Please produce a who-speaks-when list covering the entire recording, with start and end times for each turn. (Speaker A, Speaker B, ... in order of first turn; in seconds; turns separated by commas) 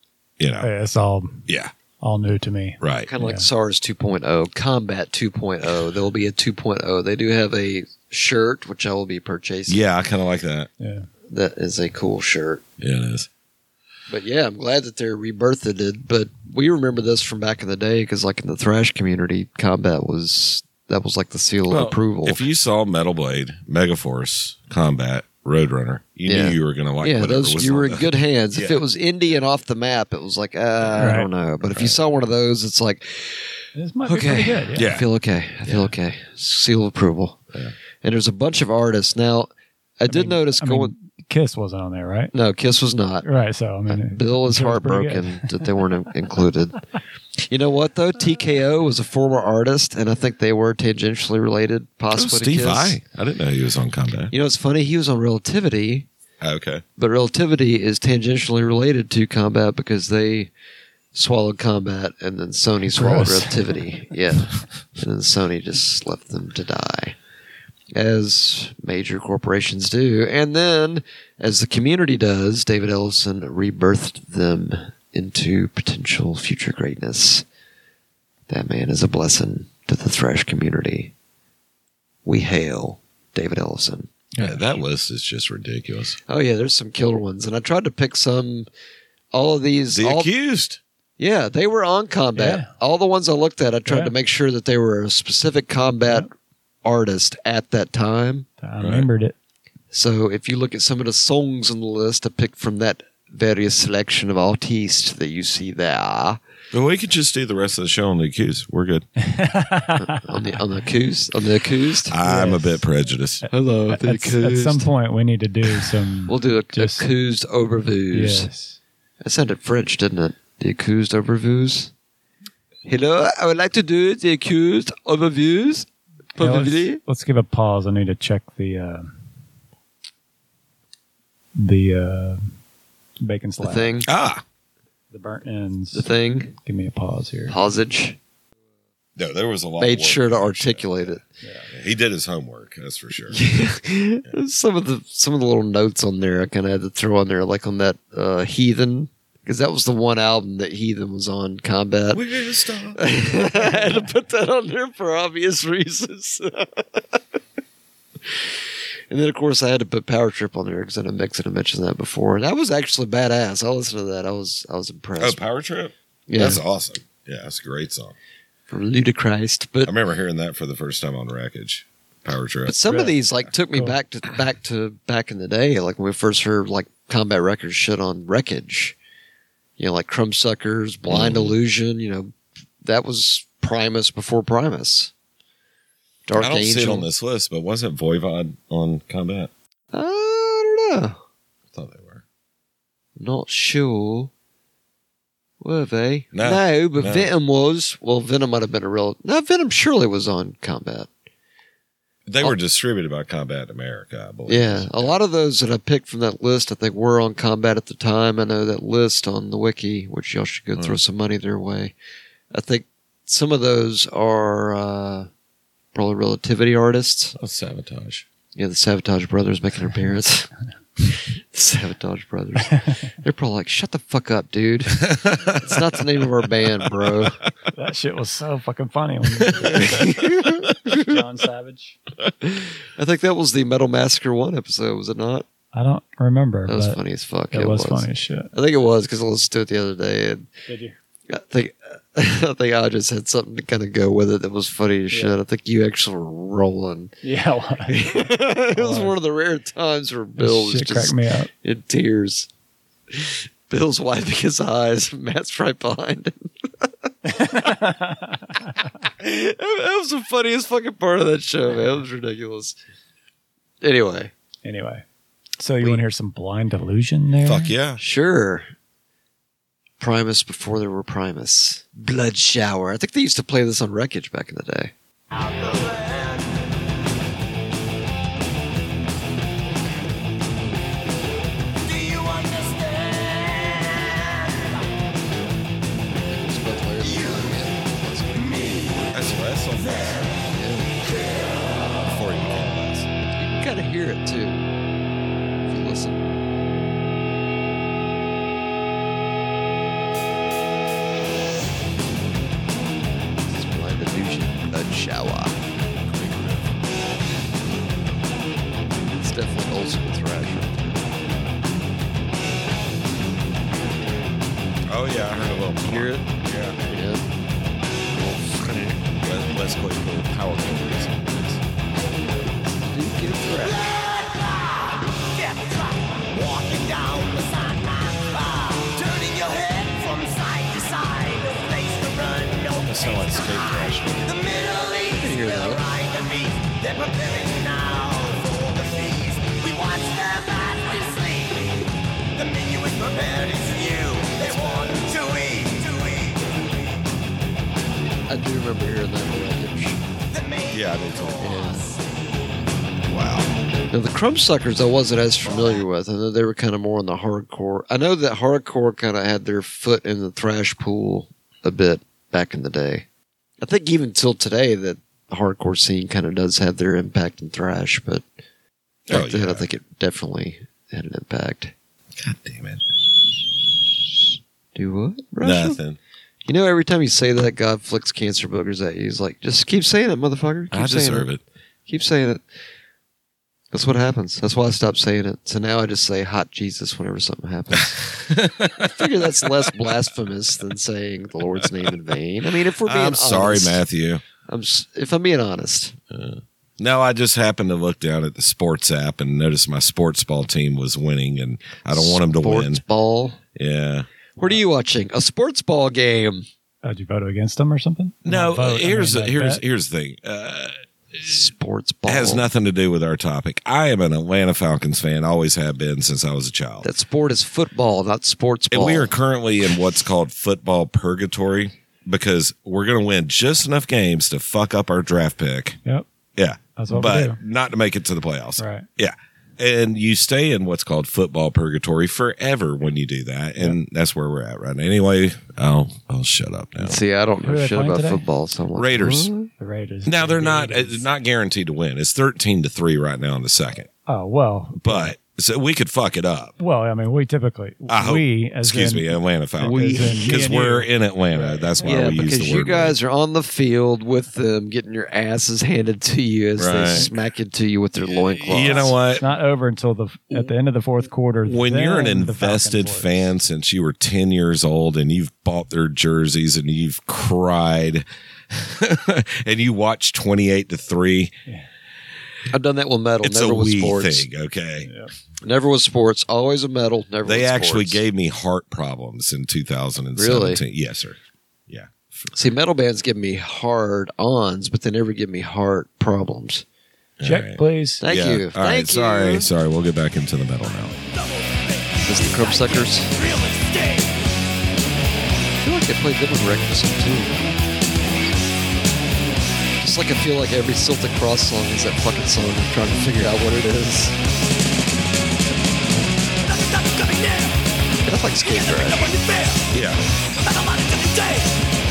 Speaker A: 0.4-0.7, Speaker B: 0.6-1.5, Speaker A: 1.5-1.7, Speaker B: 2.0-3.5, Speaker A: 2.8-3.1, Speaker C: 3.1-9.8, Speaker A: 9.7-10.7, Speaker B: 10.8-11.1, Speaker C: 11.3-12.6, Speaker A: 12.8-13.3, Speaker C: 14.1-22.4, Speaker A: 21.7-28.8, Speaker C: 26.3-37.4, Speaker A: 30.8-32.0, Speaker B: 31.0-31.3, Speaker B: 33.8-35.0, Speaker A: 34.8-35.1, Speaker A: 35.7-35.9, Speaker C: 38.0-40.9, Speaker B: 40.1-42.3, Speaker C: 42.3-43.2, Speaker B: 43.2-45.7, Speaker C: 43.9-46.8, Speaker C: 47.5-53.0, Speaker A: 52.1-54.3, Speaker C: 54.3-56.1, Speaker A: 56.4-56.8, Speaker C: 57.0-60.5, Speaker C: 61.1-67.2, Speaker B: 62.9-63.8, Speaker C: 67.9-77.5, Speaker C: 78.5-81.1, Speaker C: 82.2-84.1, Speaker B: 84.3-84.6, Speaker A: 84.4-86.2, Speaker C: 86.3-88.7, Speaker C: 89.3-90.3, Speaker A: 89.9-90.8, Speaker C: 91.2-96.3, Speaker B: 92.4-92.7, Speaker B: 93.9-94.1, Speaker C: 96.8-98.5, Speaker B: 98.6-99.3, Speaker A: 98.8-99.1, Speaker C: 99.9-106.4, Speaker A: 106.7-109.1, Speaker B: 109.2-110.3, Speaker C: 110.0-112.2, Speaker A: 112.1-113.5, Speaker B: 112.2-112.8, Speaker C: 113.5-114.9, Speaker B: 113.9-117.1, Speaker C: 116.3-118.5, Speaker B: 118.1-118.8, Speaker C: 119.2-121.9, Speaker C: 122.9-127.0, Speaker B: 126.4-129.1, Speaker B: 131.6-132.4, Speaker B: 133.2-133.9, Speaker C: 133.6-134.1, Speaker A: 134.1-134.4, Speaker B: 135.1-137.6, Speaker C: 135.9-136.6, Speaker C: 137.5-138.2, Speaker A: 139.2-143.4, Speaker C: 139.8-141.2, Speaker B: 141.4-141.7, Speaker C: 143.3-152.2, Speaker A: 152.1-153.0, Speaker C: 152.9-157.2, Speaker C: 159.1-165.4, Speaker A: 165.2-168.2, Speaker C: 166.3-166.6, Speaker C: 168.7-169.9, Speaker A: 169.8-172.8, Speaker C: 172.7-179.0, Speaker B: 172.9-173.2, Speaker C: 179.8-185.1, Speaker A: 181.1-181.6, Speaker C: 186.3-187.1, Speaker A: 186.4-189.5, Speaker C: 189.9-191.2, Speaker A: 191.7-192.2, Speaker C: 193.2-194.3, Speaker C: 195.6-201.1, Speaker A: 196.3-197.3, Speaker A: 202.3-205.2, Speaker C: 204.5-211.9, Speaker C: 212.5-215.3, Speaker C: 215.9-217.4, Speaker A: 217.4-218.3, Speaker C: 218.6-220.5, Speaker C: 221.1-227.4, Speaker A: 224.9-225.8, Speaker A: 226.8-227.5, Speaker B: 227.7-230.3, Speaker A: 229.4-229.8, Speaker C: 229.7-231.2, Speaker B: 230.8-232.0, Speaker C: 232.4-235.5, Speaker B: 235.7-237.0, Speaker C: 236.7-240.5, Speaker B: 237.5-238.5, Speaker B: 240.7-241.0, Speaker C: 241.3-247.1, Speaker B: 245.1-245.4, Speaker B: 247.2-249.2, Speaker C: 247.9-252.5, Speaker B: 250.4-251.5, Speaker C: 253.1-257.5, Speaker B: 257.3-258.7, Speaker C: 259.2-262.8, Speaker C: 263.8-264.3, Speaker B: 264.6-265.1, Speaker B: 265.6-267.7, Speaker A: 267.4-268.0, Speaker C: 268.0-268.7, Speaker C: 270.0-274.9, Speaker D: 275.3-276.6, Speaker D: 281.8-284.8, Speaker C: 286.3-288.9, Speaker A: 289.1-290.4, Speaker C: 290.5-291.0, Speaker A: 292.0-293.1, Speaker C: 293.4-294.6, Speaker C: 295.7-296.2, Speaker C: 303.5-305.6, Speaker A: 306.1-306.8, Speaker C: 309.2-311.1, Speaker A: 314.9-316.8, Speaker C: 315.7-316.3, Speaker C: 316.9-317.2, Speaker C: 318.3-319.0, Speaker A: 319.2-321.6, Speaker C: 322.9-323.8, Speaker D: 323.6-346.6, Speaker A: 332.8-334.4, Speaker C: 335.2-335.9, Speaker A: 344.4-345.1, Speaker C: 348.3-350.0, Speaker D: 350.3-352.0, Speaker A: 350.7-351.7, Speaker C: 351.4-351.9, Speaker A: 353.1-353.5, Speaker C: 353.9-363.1, Speaker C: 363.6-368.2, Speaker A: 369.1-369.7, Speaker C: 369.1-371.7, Speaker A: 372.1-372.8, Speaker C: 374.8-375.8, Speaker A: 375.4-376.0, Speaker C: 376.5-381.3, Speaker A: 380.7-381.4, Speaker C: 381.9-382.4, Speaker C: 383.7-393.8, Speaker A: 387.9-389.9, Speaker A: 391.6-391.9, Speaker A: 392.8-394.2, Speaker C: 394.5-396.0, Speaker A: 396.1-402.8, Speaker C: 401.9-403.4, Speaker A: 403.6-404.1, Speaker C: 404.4-406.5, Speaker B: 406.8-409.6, Speaker A: 408.2-411.4, Speaker C: 411.2-412.5, Speaker A: 412.1-416.9, Speaker C: 416.8-419.1, Speaker A: 418.7-425.8, Speaker A: 426.4-437.0, Speaker B: 426.8-427.4, Speaker B: 428.6-428.9, Speaker C: 436.8-439.5, Speaker B: 437.4-438.2, Speaker A: 438.8-439.3, Speaker B: 439.6-441.0, Speaker A: 440.1-443.9, Speaker B: 444.1-445.1, Speaker A: 444.8-446.6, Speaker B: 446.6-452.0, Speaker A: 447.9-453.0, Speaker C: 449.6-450.4, Speaker C: 451.8-459.0, Speaker A: 456.6-457.1, Speaker A: 458.4-459.2, Speaker B: 458.7-463.3, Speaker A: 461.4-471.3, Speaker C: 472.5-474.3, Speaker A: 473.2-474.9, Speaker B: 474.9-475.1, Speaker C: 475.4-478.0, Speaker A: 477.2-481.9, Speaker C: 480.2-480.6, Speaker C: 482.3-486.6, Speaker A: 487.2-491.0, Speaker B: 487.2-488.0, Speaker C: 488.0-489.5, Speaker D: 491.2-494.1, Speaker C: 492.1-493.1, Speaker C: 495.6-497.4, Speaker C: 499.8-504.2, Speaker D: 506.4-507.6, Speaker C: 508.1-509.1, Speaker D: 508.4-509.7, Speaker A: 509.7-510.0, Speaker D: 510.4-511.6